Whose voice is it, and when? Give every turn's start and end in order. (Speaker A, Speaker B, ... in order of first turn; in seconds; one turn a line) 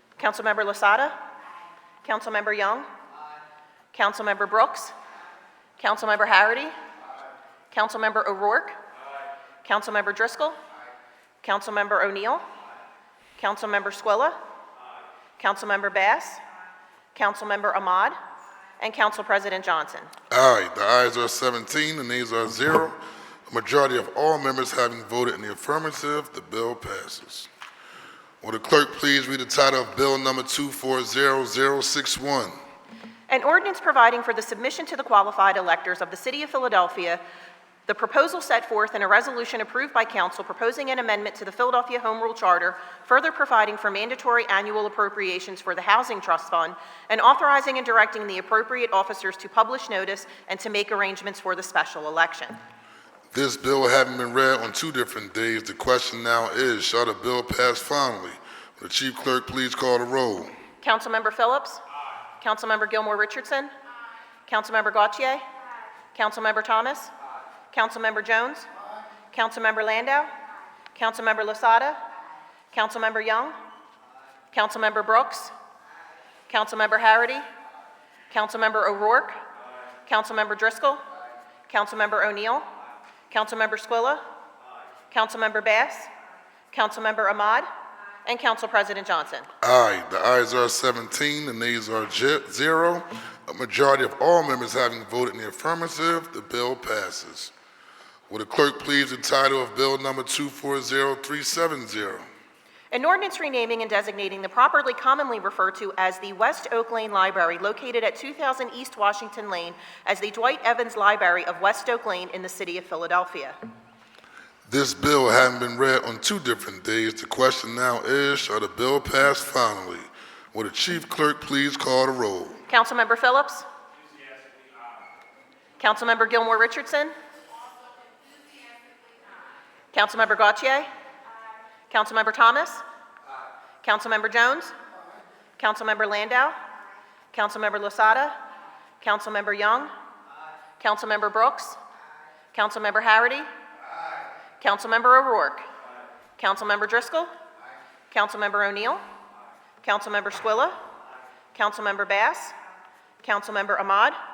Speaker A: 0.2-1.2
Speaker A: 2.0-2.9
Speaker A: 3.9-4.9
Speaker A: 5.8-6.7
Speaker A: 7.7-8.8
Speaker A: 9.7-10.6
Speaker A: 11.4-12.4
Speaker A: 13.4-14.4
Speaker A: 15.4-16.4
Speaker A: 17.1-18.2
Speaker A: 18.8-20.1
Speaker B: 20.3-27.5
Speaker B: 28.4-32.5
Speaker A: 33.3-37.2
Speaker A: 37.9-52.6
Speaker B: 53.3-60.5
Speaker A: 60.8-61.8
Speaker A: 62.4-63.7
Speaker A: 64.5-65.4
Speaker A: 66.1-67.1
Speaker A: 67.7-68.7
Speaker A: 69.3-70.3
Speaker A: 71.0-72.0
Speaker A: 72.7-73.6
Speaker A: 74.5-75.5
Speaker A: 76.5-77.5
Speaker A: 78.3-79.4
Speaker A: 80.1-81.0
Speaker A: 81.7-82.7
Speaker A: 83.3-84.2
Speaker A: 85.1-86.1
Speaker A: 86.7-87.7
Speaker A: 88.3-89.5
Speaker B: 89.6-97.5
Speaker B: 98.3-102.2
Speaker A: 102.9-113.6
Speaker B: 114.7-122.6
Speaker A: 122.7-123.7
Speaker A: 125.8-127.1
Speaker A: 129.9-130.9
Speaker A: 131.9-132.8
Speaker A: 133.8-134.8
Speaker A: 135.6-136.6
Speaker A: 137.3-138.4
Speaker A: 139.0-139.9
Speaker A: 140.8-141.8
Speaker A: 142.5-143.5
Speaker A: 144.6-145.7
Speaker A: 146.4-147.3
Speaker A: 148.1-149.0
Speaker A: 149.8-150.8
Speaker A: 151.6-152.6
Speaker A: 153.2-154.2